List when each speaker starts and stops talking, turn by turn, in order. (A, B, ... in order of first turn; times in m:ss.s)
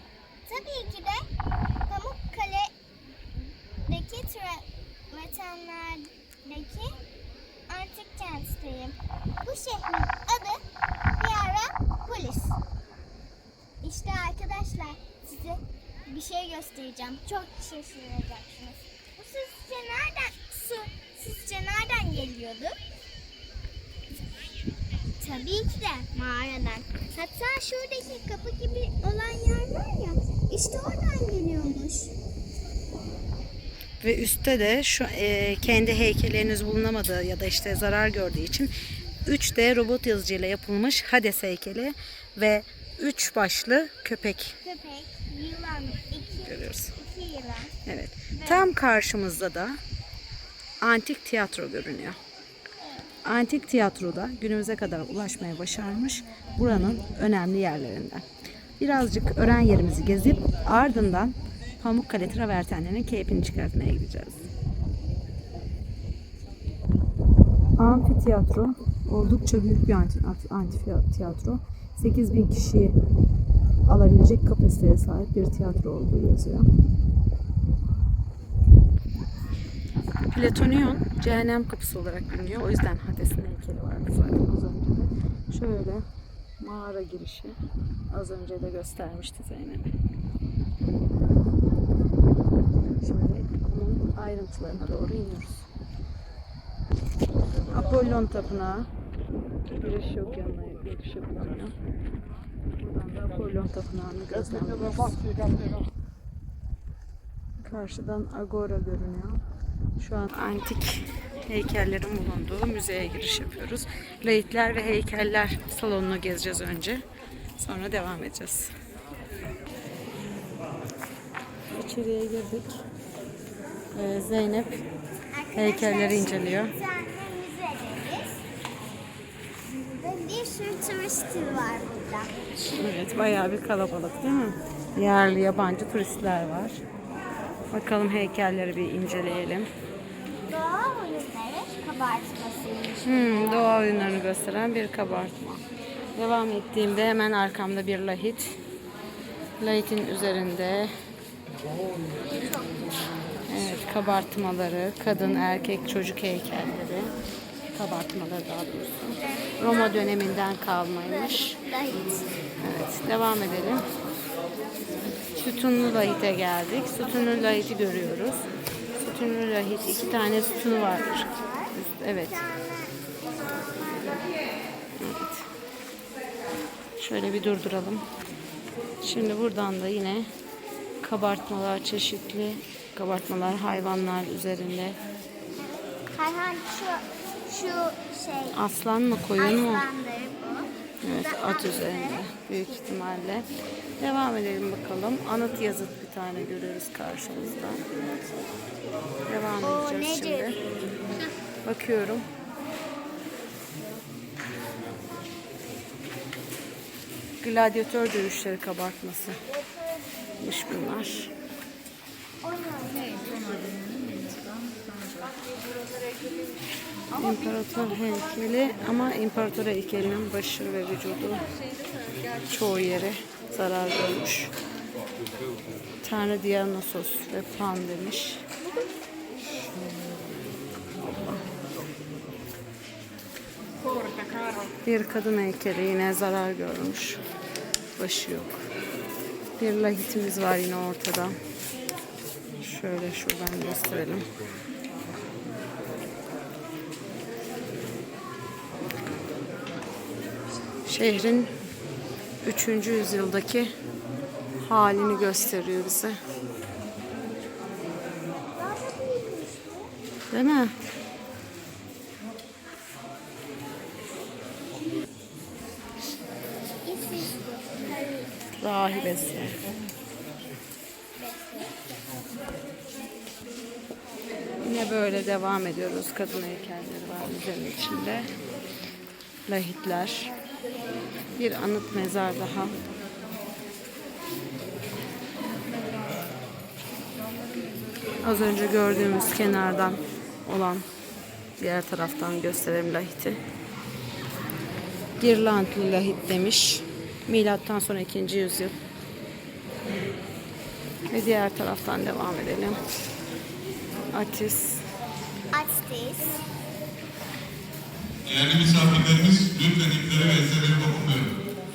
0:00.5-0:01.3 A
0:01.9-0:02.7 A
0:03.8-0:07.0 A
0:07.7-0:10.6 A
0:11.2-0:12.6 A
0:13.8-0:22.7 A
0:25.2-0:32.1 A
0:34.0-0:38.7 B
0:39.2-0:44.6 B
0:44.6-0:47.7 A
0:46.4-0:46.9 B
0:47.8-0:49.8 B
0:48.3-0:48.7 A
0:50.8-0:52.2 B
0:53.2-0:58.2 B
0:58.8-1:04.5 B
1:07.8-1:13.0 B
1:13.9-1:16.6 B
1:20.3-1:26.0 B
1:26.6-1:27.5 B
1:28.1-1:29.9 B
1:33.0-1:35.7 B
1:37.7-1:38.9 B
1:39.7-1:41.7 B
1:42.8-1:45.2 B
1:47.6-1:49.4 B
1:50.0-1:57.0 B
1:57.6-1:58.7 B
2:01.7-2:02.8 B
2:03.9-2:04.8 B
2:05.3-2:08.4 A
2:05.6-2:06.7 B
2:09.9-2:12.3 A
2:12.7-2:16.8 B
2:17.7-2:19.7 B
2:20.5-2:23.6 A
2:23.0-2:25.6 B
2:26.1-2:28.6 B
2:29.6-2:30.9 B
2:32.2-2:32.9 A
2:33.5-2:37.1 B
2:37.7-2:41.6 B
2:39.3-2:40.1 A
2:41.0-2:42.2 A
2:42.6-2:43.8 B
2:45.4-2:48.4 B
2:49.0-2:52.4 B
2:50.0-2:51.7 A
2:52.2-2:54.2 A
2:55.0-2:55.4 B
2:57.0-2:58.0 B
2:59.0-3:00.3 B
3:01.0-3:05.0 B
3:05.6-3:08.6 A
3:08.5-3:09.8 B
3:09.4-3:12.2 A
3:11.0-3:13.5 B
3:14.0-3:17.8 B
3:19.3-3:20.6 B
3:19.6-3:20.6 A
3:21.6-3:22.2 B
3:27.4-3:29.4 B
3:30.4-3:31.3 B
3:32.4-3:34.6 A
3:37.1-3:41.5 B
3:42.5-3:44.5 B
3:45.3-3:45.7 C
3:46.0-3:48.4 B
3:51.0-3:51.4 B
3:54.8-3:57.2 B
3:58.0-3:58.6 B
3:59.6-4:01.3 B
4:02.6-4:04.3 B
4:10.8-4:11.5 B
4:12.4-4:13.7 B
4:14.6-4:16.2 B
4:15.0-4:15.6 A
4:18.6-4:19.9 A
4:20.3-4:20.7 B
4:26.8-4:29.2 A
4:28.6-4:29.6 B
4:31.2-4:31.9 A
4:34.6-4:38.3 B
4:39.5-4:40.3 B
4:41.4-4:42.7 B
4:48.2-4:50.8 B
4:51.6-4:53.4 B
4:55.2-4:58.8 B
5:01.1-5:02.8 B
5:04.1-5:04.8 B
5:05.5-5:06.4 A
5:08.2-5:11.4 C